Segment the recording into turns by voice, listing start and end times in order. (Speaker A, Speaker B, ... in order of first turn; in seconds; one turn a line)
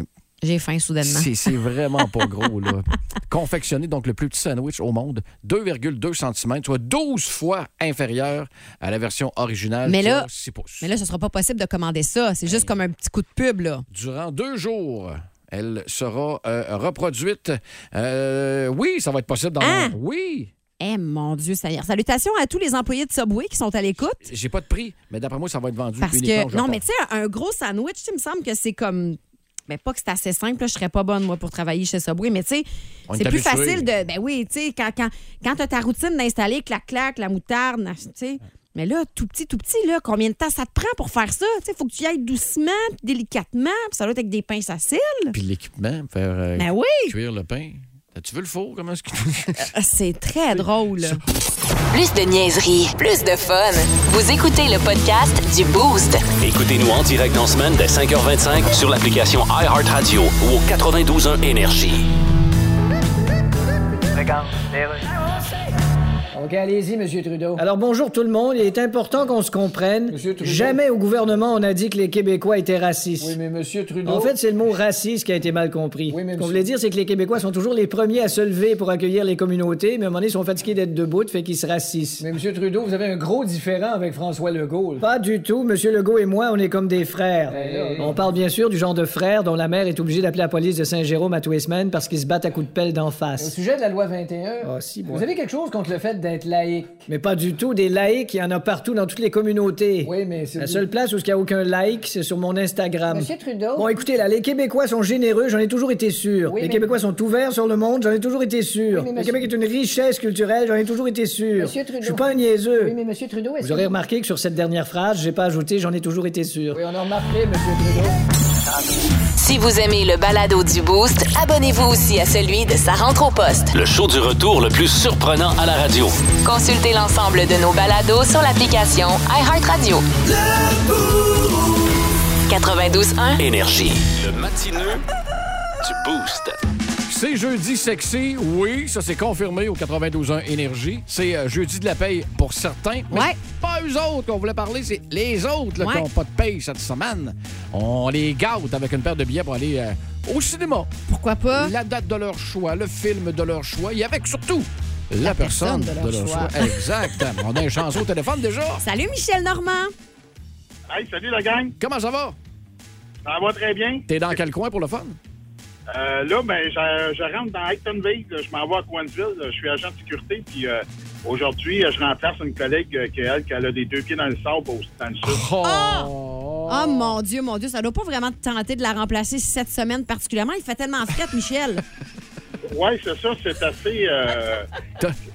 Speaker A: 0.4-1.3
Speaker B: 1.0-10.9
Speaker A: 9.8-10.3
Speaker A: 10.8-13.8
Speaker B: 12.4-12.8
Speaker B: 13.9-20.5
Speaker A: 19.6-19.9
Speaker A: 20.8-24.2
Speaker B: 24.2-26.8
Speaker A: 26.0-45.3
Speaker B: 33.1-33.9
Speaker B: 45.3-49.7
Speaker A: 46.6-47.1
Speaker A: 49.6-51.2
Speaker C: 51.9-56.3
Speaker D: 56.4-62.0
Speaker E: 64.1-65.0
Speaker E: 66.3-67.6
Speaker F: 67.6-73.3
Speaker E: 70.1-70.8
Speaker E: 73.2-74.3
Speaker F: 74.0-82.2
Speaker E: 76.1-76.6
Speaker E: 82.2-85.0
Speaker F: 85.0-93.5
Speaker E: 87.5-88.3
Speaker E: 93.4-97.0
Speaker F: 94.6-95.2
Speaker F: 97.1-113.0
Speaker E: 100.0-100.9
Speaker E: 103.1-103.9
Speaker E: 106.5-106.9
Speaker E: 108.9-109.5
Speaker E: 111.6-113.9
Speaker F: 113.6-116.8
Speaker E: 116.7-118.1
Speaker C: 119.4-123.7
Speaker D: 123.7-126.2
Speaker C: 126.4-130.0
Speaker C: 132.5-133.4
Speaker D: 133.4-135.0
Speaker D: 135.8-136.6
Speaker B: 137.1-150.9
Speaker A: 143.1-143.4
Speaker A: 145.8-146.1
Speaker A: 151.1-151.7
Speaker B: 151.5-158.8
Speaker A: 155.2-157.2
Speaker A: 158.8-159.9
Speaker G: 160.9-161.7
Speaker B: 161.8-162.3
Speaker G: 163.2-164.0
Speaker B: 164.1-165.2
Speaker G: 165.9-175.4
Speaker B: 175.2-177.2
Speaker A: 175.6-176.1
Speaker A: 176.7-181.8
Speaker G: 182.7-184.7